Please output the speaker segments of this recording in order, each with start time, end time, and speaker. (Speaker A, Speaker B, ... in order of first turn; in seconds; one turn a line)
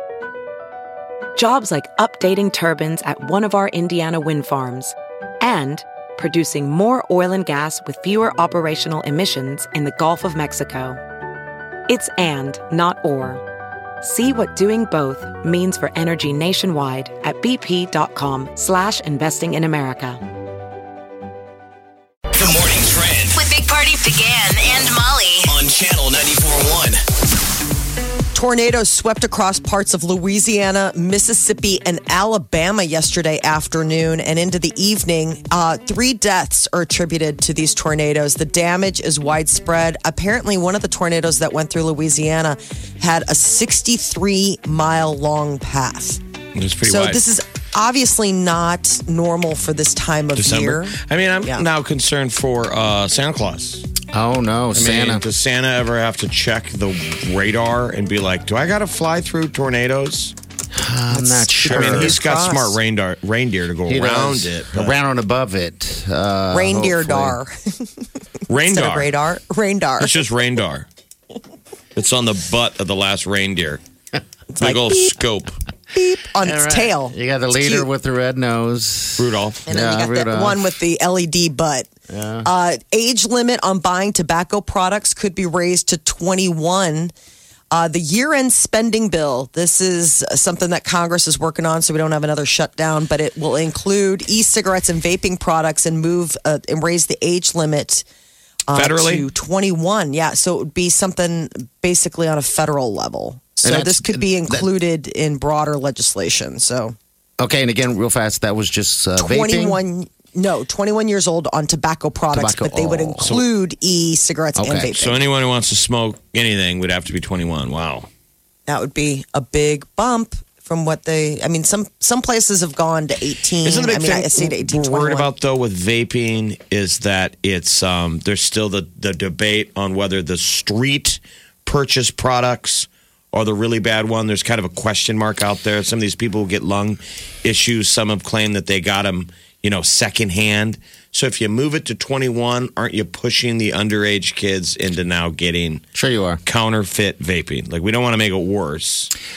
Speaker A: 1.4-11.0
Speaker A: 11.9-13.4
Speaker A: 14.0-20.2
Speaker B: 22.4-23.4
Speaker C: 23.3-25.6
Speaker B: 25.5-27.0
Speaker D: 28.3-46.2
Speaker E: 46.5-47.2
Speaker D: 46.8-51.6
Speaker E: 50.4-53.9
Speaker F: 54.1-55.2
Speaker E: 54.7-60.3
Speaker F: 60.7-62.2
Speaker D: 61.1-62.8
Speaker E: 61.7-64.9
Speaker F: 63.9-67.4
Speaker D: 66.5-67.8
Speaker E: 68.5-69.1
Speaker D: 68.7-70.2
Speaker E: 70.0-70.9
Speaker E: 71.9-73.8
Speaker D: 74.5-75.2
Speaker E: 74.6-75.5
Speaker D: 75.9-77.9
Speaker F: 76.4-80.7
Speaker E: 79.2-79.6
Speaker D: 79.7-81.9
Speaker F: 82.1-82.5
Speaker D: 82.4-87.1
Speaker D: 87.7-98.0
Speaker D: 98.7-106.9
Speaker E: 98.7-99.3
Speaker F: 103.6-104.7
Speaker F: 107.4-109.8
Speaker D: 109.2-115.2
Speaker F: 112.3-113.3
Speaker F: 114.6-114.9
Speaker E: 115.0-118.1
Speaker D: 118.7-125.3
Speaker E: 123.6-145.8
Speaker F: 145.9-146.4
Speaker E: 146.4-149.1